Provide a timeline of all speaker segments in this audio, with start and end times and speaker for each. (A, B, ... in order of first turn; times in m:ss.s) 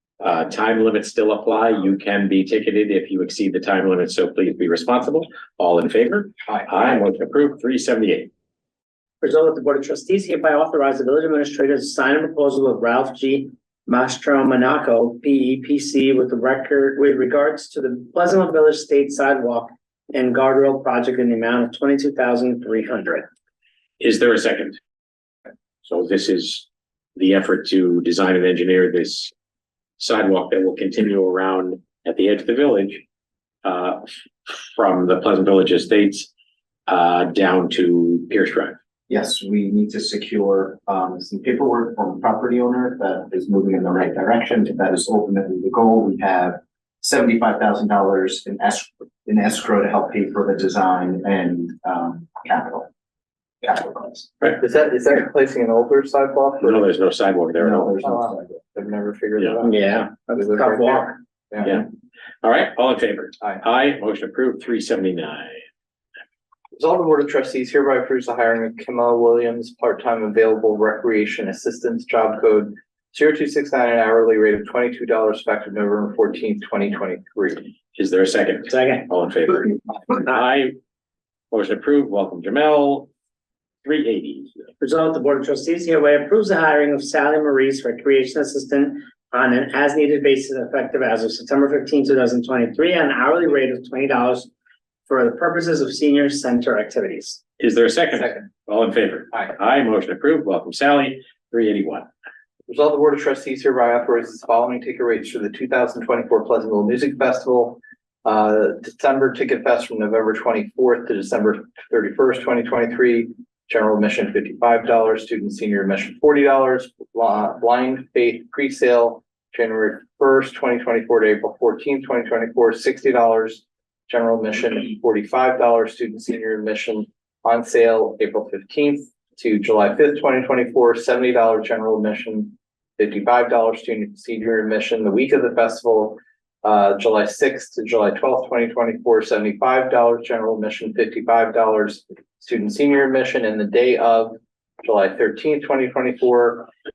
0:00.2-0:08.3 A
0:09.2-0:23.3 B
0:24.0-0:24.8 A
0:25.8-0:29.3 A
0:30.0-0:33.0 A
0:33.6-0:36.3 A
0:36.9-0:38.8 A
0:39.1-0:52.9 C
0:53.6-0:54.3 C
0:54.6-0:56.8 D
0:56.6-0:58.0 A
0:57.6-0:58.5 C
0:58.0-1:01.8 D
0:59.6-1:01.2 B
1:01.6-1:01.9 A
1:02.4-1:05.6 A
1:06.8-1:17.7 D
1:18.0-1:20.8 A
1:18.7-1:19.1 B
1:21.5-1:23.1 A
1:23.8-1:24.6 A
1:24.8-1:34.5 B
1:35.1-1:37.4 B
1:37.6-1:42.1 A
1:38.2-1:38.5 D
1:42.7-2:26.7 D